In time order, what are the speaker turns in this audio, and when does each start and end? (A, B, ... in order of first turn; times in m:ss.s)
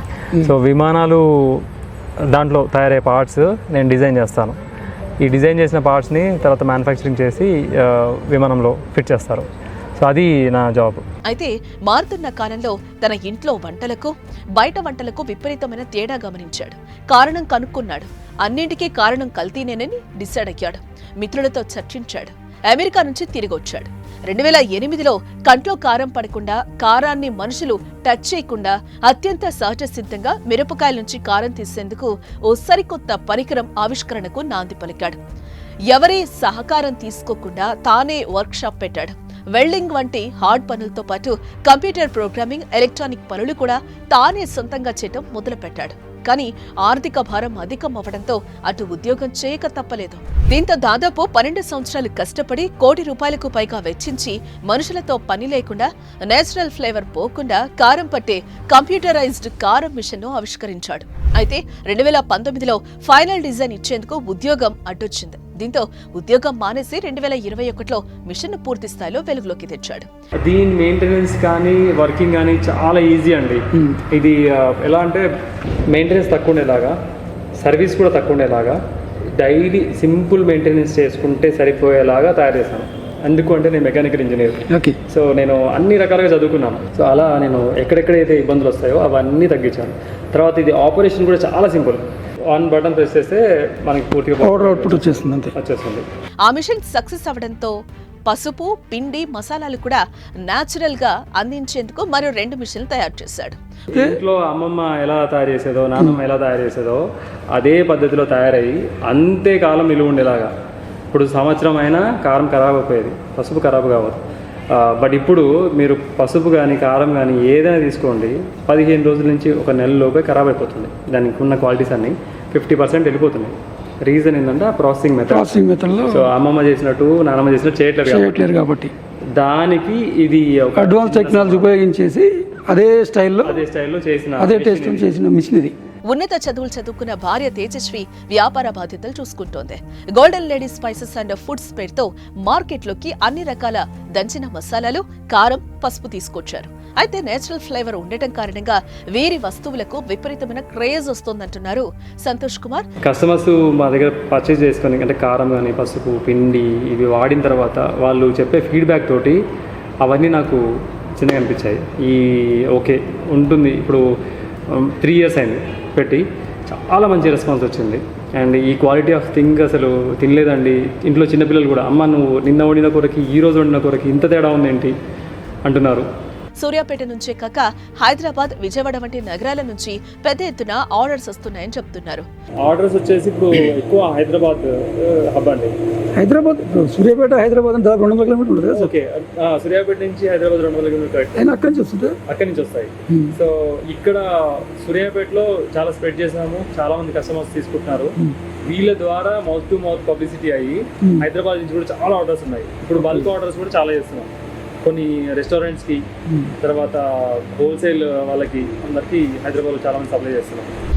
0:00.4-0:01.6 A
0:02.3-0:04.6 A
0:05.2-0:09.5 A
0:10.0-0:11.0 A
0:11.3-0:35.2 B
0:35.9-1:10.1 B
1:10.4-1:15.3 A
1:15.9-1:17.0 A
1:17.6-1:18.8 A
1:19.4-1:36.1 A
1:24.7-1:25.0 C
1:34.4-1:35.5 C
1:36.4-1:43.6 B
1:43.9-1:50.5 A
1:51.1-2:08.5 A
2:05.3-2:06.3 C
2:08.0-2:08.9 C
2:09.3-2:11.7 A
2:10.8-2:13.6 C
2:13.4-2:15.1 A
2:14.4-2:15.8 C
2:16.1-2:32.9 B
2:33.0-2:39.4 A
2:40.0-2:40.6 A
2:41.2-2:44.0 A
2:44.7-2:55.0 A
2:55.6-2:56.1 A
2:56.6-3:02.2 B
3:02.6-3:05.7 A
3:06.2-3:08.9 C
3:08.7-3:11.5 A
3:11.4-3:12.2 C
3:12.3-3:18.2 A
3:18.7-3:24.3 A
3:24.8-3:26.0 A
3:26.6-3:30.7 A